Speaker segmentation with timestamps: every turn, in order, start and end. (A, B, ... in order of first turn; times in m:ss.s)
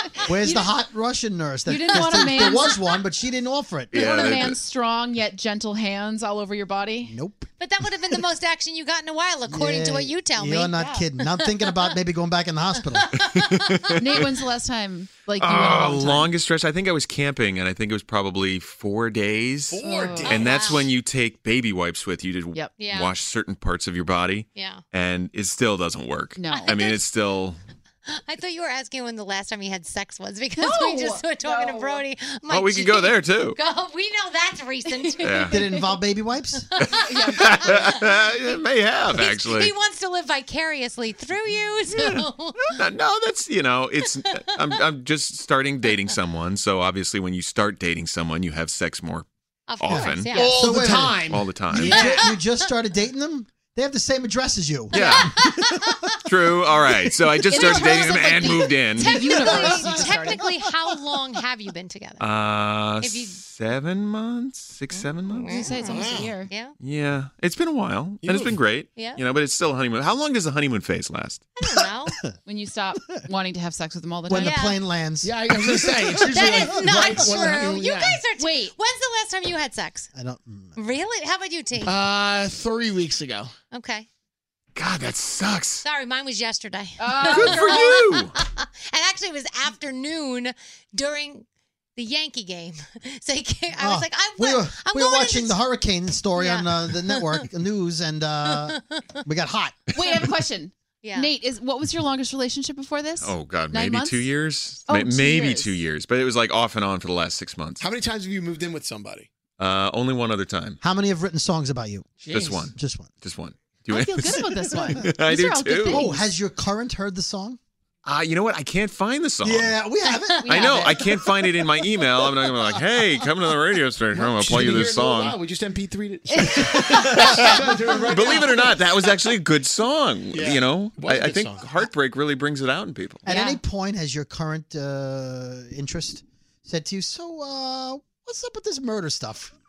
0:00.2-0:04.3 A
0:00.3-0:00.8 B
0:01.7-0:02.8 B
0:01.9-0:02.8 C
0:03.9-0:04.6 D
0:03.9-0:07.2 B
0:07.1-0:07.5 A
0:07.6-0:11.8 C
0:09.5-0:13.2 A
0:10.7-0:11.0 B
0:12.9-0:13.7 C
0:13.2-0:13.9 D
0:14.0-0:16.3 B
0:15.4-0:27.6 D
0:19.7-0:20.6 E
0:19.8-0:20.4 B
0:20.2-0:20.9 C
0:22.8-0:23.2 C
0:24.5-0:24.8 C
0:26.4-0:26.7 B
0:26.5-0:27.0 C
0:28.1-0:36.0 C
0:30.6-0:32.0 B
0:32.5-0:33.6 D
0:35.2-0:35.6 D
0:35.5-0:36.7 A
0:36.8-0:39.7 D
0:36.8-0:38.0 C
0:36.9-0:37.7 B
0:39.1-0:42.8 C
0:42.7-0:49.3 D
0:49.7-0:50.7 C
0:49.8-0:50.4 D
0:49.9-0:55.8 A
0:50.4-0:51.0 F
0:50.4-0:52.3 E
0:51.3-0:52.0 D
0:51.9-0:52.5 C
0:54.9-0:55.3 D
0:54.9-0:56.0 C
0:56.2-0:59.1 D
0:57.5-1:00.4 B
0:57.6-1:02.3 C
0:59.1-1:00.3 A
1:02.2-1:05.7 D
1:03.0-1:03.4 C
1:04.9-1:06.8 C
1:05.5-1:06.5 B
1:05.8-1:06.3 E
1:06.8-1:11.5 D
1:08.2-1:08.6 E
1:08.9-1:09.2 C
1:11.6-1:12.2 C
1:11.6-1:12.3 A
1:12.4-1:14.7 B
1:14.3-1:16.6 A
1:14.4-1:14.8 C
1:15.2-1:18.2 F
1:16.3-1:20.1 C
1:18.4-1:18.7 B
1:20.1-1:20.8 A
1:20.8-1:22.0 C
1:21.8-1:23.5 F
1:23.7-1:24.1 C
1:24.8-1:25.8 D
1:25.8-1:31.4 C
1:27.0-1:28.0 B
1:27.2-1:28.3 D
1:32.0-1:35.6 C
1:33.8-1:39.8 A
1:36.4-1:37.4 C
1:38.4-1:39.0 C
1:39.9-1:44.3 B
1:41.0-1:41.3 C
1:43.2-1:47.8 D
1:44.9-1:45.8 B
1:47.8-1:49.3 E
1:49.6-1:50.8 D
1:50.8-1:53.1 A
1:52.2-1:52.6 F
1:52.3-1:56.1 D
1:53.9-1:56.2 B
1:55.9-1:57.6 A
1:58.0-1:59.8 D
1:59.4-2:00.8 A
2:00.5-2:01.0 B
2:00.5-2:05.4 D
2:04.1-2:09.1 E
2:06.3-2:08.0 B
2:06.8-2:13.3 D
2:10.3-2:11.7 E
2:13.2-2:19.5 A
2:13.3-2:13.6 B